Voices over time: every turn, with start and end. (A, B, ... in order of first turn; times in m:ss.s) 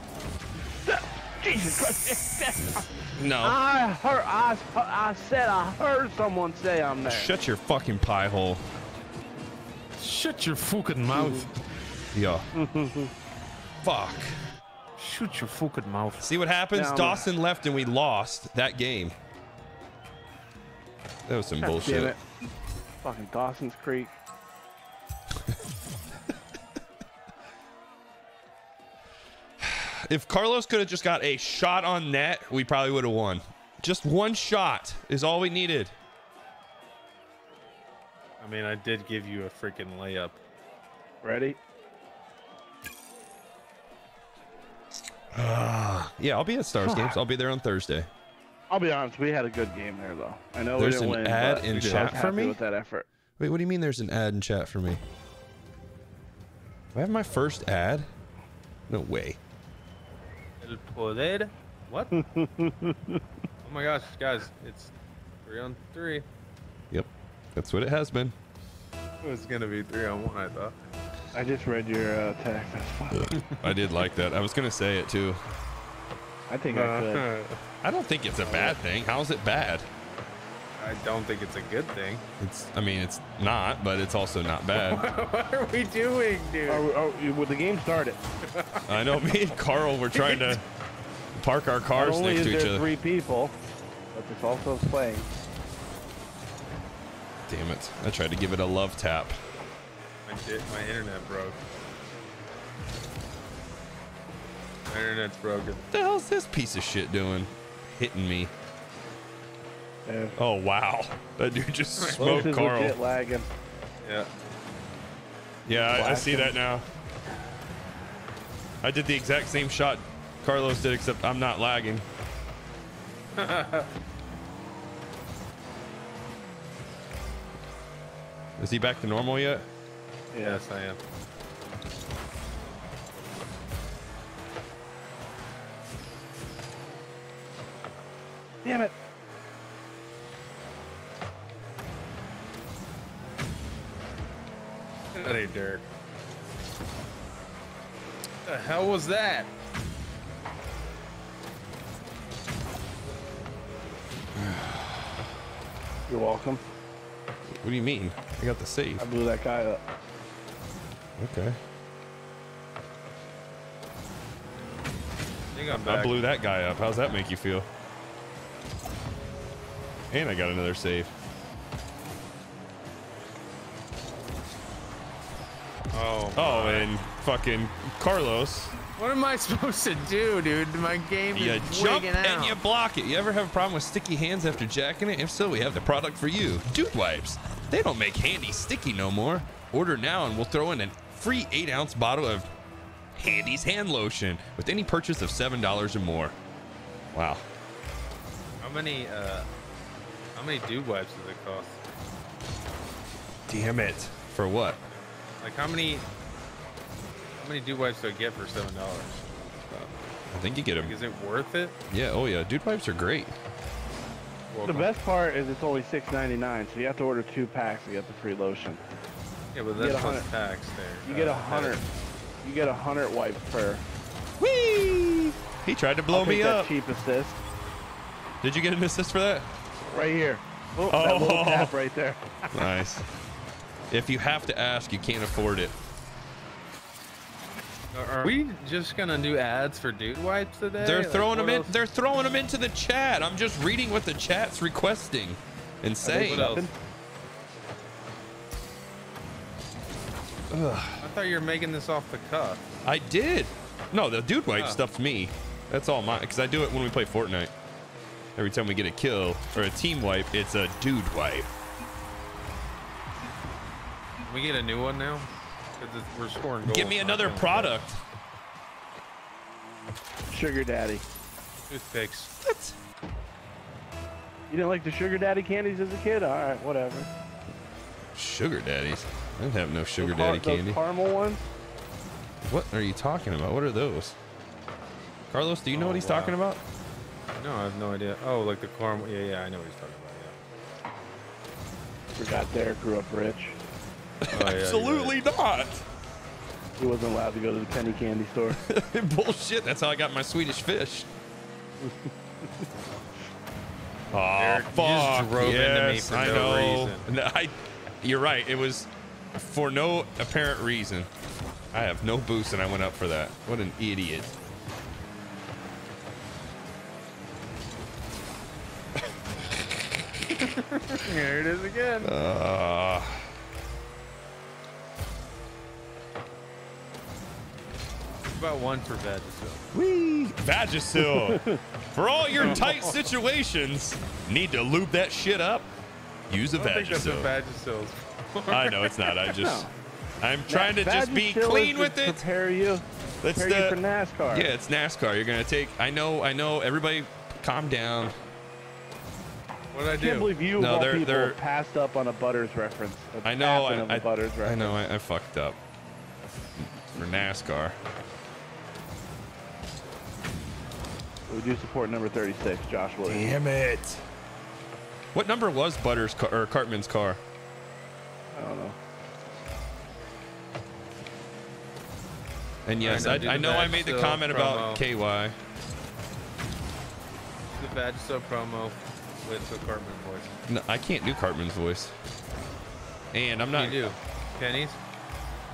0:00.8-0:07.3 A
0:03.2-0:03.6 B
0:07.0-0:08.6 B
0:10.0-0:11.5 C
0:11.1-0:11.5 A
0:12.1-0:12.5 B
0:12.5-0:13.1 A
0:13.8-0:14.4 B
0:15.0-0:16.3 C
0:16.2-0:19.1 B
0:16.7-0:17.3 A
0:21.3-0:22.1 B
0:21.6-0:22.2 A
0:23.0-0:24.2 A
0:29.6-0:35.9 B
0:38.4-0:40.4 C
0:41.2-0:41.6 A
0:45.3-0:48.1 B
0:48.7-0:53.0 A
0:50.8-0:52.6 B
0:51.7-0:52.2 C
0:53.4-0:55.0 B
0:56.9-0:58.1 B
0:58.9-0:59.4 B
1:00.6-1:02.1 C
1:02.1-1:03.2 A
1:03.6-1:04.9 C
1:05.4-1:06.2 C
1:06.9-1:08.3 B
1:09.2-1:10.7 C
1:11.3-1:13.4 A
1:13.5-1:15.4 B
1:16.5-1:17.2 A
1:16.7-1:17.6 C
1:17.8-1:19.8 B
1:18.5-1:18.8 C
1:20.8-1:22.2 C
1:22.4-1:25.0 B
1:24.7-1:26.9 C
1:26.7-1:28.2 A
1:28.4-1:29.1 C
1:28.9-1:30.6 B
1:30.2-1:30.6 C
1:31.3-1:32.8 B
1:31.9-1:33.5 A
1:34.1-1:35.3 A
1:37.4-1:39.4 B
1:40.2-1:41.6 C
1:44.9-1:45.8 C
1:45.9-1:48.5 B
1:50.1-1:50.4 A
1:50.4-1:53.0 B
1:52.0-1:52.5 C
1:52.2-1:53.5 A
1:54.0-1:54.3 C
1:55.7-1:56.8 B
1:55.8-1:56.6 A
1:58.8-2:02.0 B
2:03.4-2:03.9 C
2:08.6-2:09.6 B
2:10.3-2:10.6 A
2:10.4-2:11.0 C
2:18.6-2:18.9 A
2:25.1-2:25.8 C
2:28.4-2:29.5 C
2:34.3-2:35.0 B
2:36.1-2:36.6 A
2:37.6-2:39.0 B
2:39.0-2:39.8 A
2:41.2-2:41.6 B
2:45.5-2:46.2 C
2:45.7-2:47.7 B
2:50.1-2:51.1 B
2:55.9-2:56.9 C
2:56.4-2:58.8 B
2:59.0-3:02.6 C
3:01.3-3:12.5 B
3:13.1-3:16.3 B
3:17.1-3:17.4 B
3:18.6-3:19.5 C
3:20.3-3:21.8 C
3:23.5-3:24.8 B
3:25.4-3:26.0 C
3:27.4-3:29.2 C
3:29.7-3:30.9 B
3:30.7-3:31.8 C
3:31.9-3:33.3 B
3:34.5-3:34.9 C
3:34.6-3:38.8 A
3:39.5-3:41.8 C
3:39.8-3:40.3 A
3:41.0-3:41.8 A
3:42.4-3:43.8 A
3:44.4-3:46.7 B
3:46.1-3:47.4 A
3:48.4-3:49.5 B
3:49.9-3:52.5 A
3:50.9-3:51.7 B
3:52.5-3:53.0 B
3:53.9-3:55.7 B
3:57.9-4:01.7 C
4:00.8-4:06.6 B
4:06.0-4:06.7 A
4:06.1-4:06.7 C
4:10.5-4:11.0 B
4:11.0-4:12.6 C
4:12.8-4:17.5 B
4:14.5-4:14.8 C
4:18.4-4:21.5 B
4:24.2-4:27.8 C
4:26.6-4:28.0 B
4:30.3-4:31.0 A
4:31.7-4:32.3 C
4:32.4-4:32.7 B
4:34.5-4:37.1 A
4:38.1-4:40.8 B
4:40.0-4:41.4 A
4:42.4-4:44.2 B
4:45.3-4:46.6 B
4:45.7-4:46.4 C
4:47.4-4:50.3 C
4:52.2-4:53.6 A
4:54.2-4:55.8 B
4:54.3-4:55.2 C
4:56.8-4:58.6 A
4:58.5-5:01.1 B
5:01.8-5:02.1 A
5:04.1-5:11.1 B
5:04.4-5:07.0 C
5:11.7-5:14.3 B
5:20.3-5:22.1 C
5:22.0-5:23.3 B
5:28.4-5:29.6 C
5:29.7-5:35.7 B
5:31.0-5:31.6 A
5:32.4-5:33.0 C
5:36.3-5:37.3 B
5:36.6-5:39.4 C
5:38.5-5:39.7 B
5:39.3-5:39.7 A
5:40.2-5:42.2 B
5:40.5-5:44.5 A
5:43.2-5:43.8 B
5:44.3-5:48.1 B
5:49.7-5:50.4 C
5:49.9-5:54.8 A
5:50.5-5:51.4 B
5:53.2-5:55.6 B
5:56.6-5:57.8 B
6:01.3-6:03.3 A
6:03.0-6:04.0 B
6:05.1-6:07.2 B
6:08.3-6:08.8 A
6:12.6-6:15.4 B
6:12.8-6:14.8 C
6:17.5-6:20.3 C
6:20.5-6:21.9 B
6:23.1-6:23.9 B
6:23.5-6:24.8 C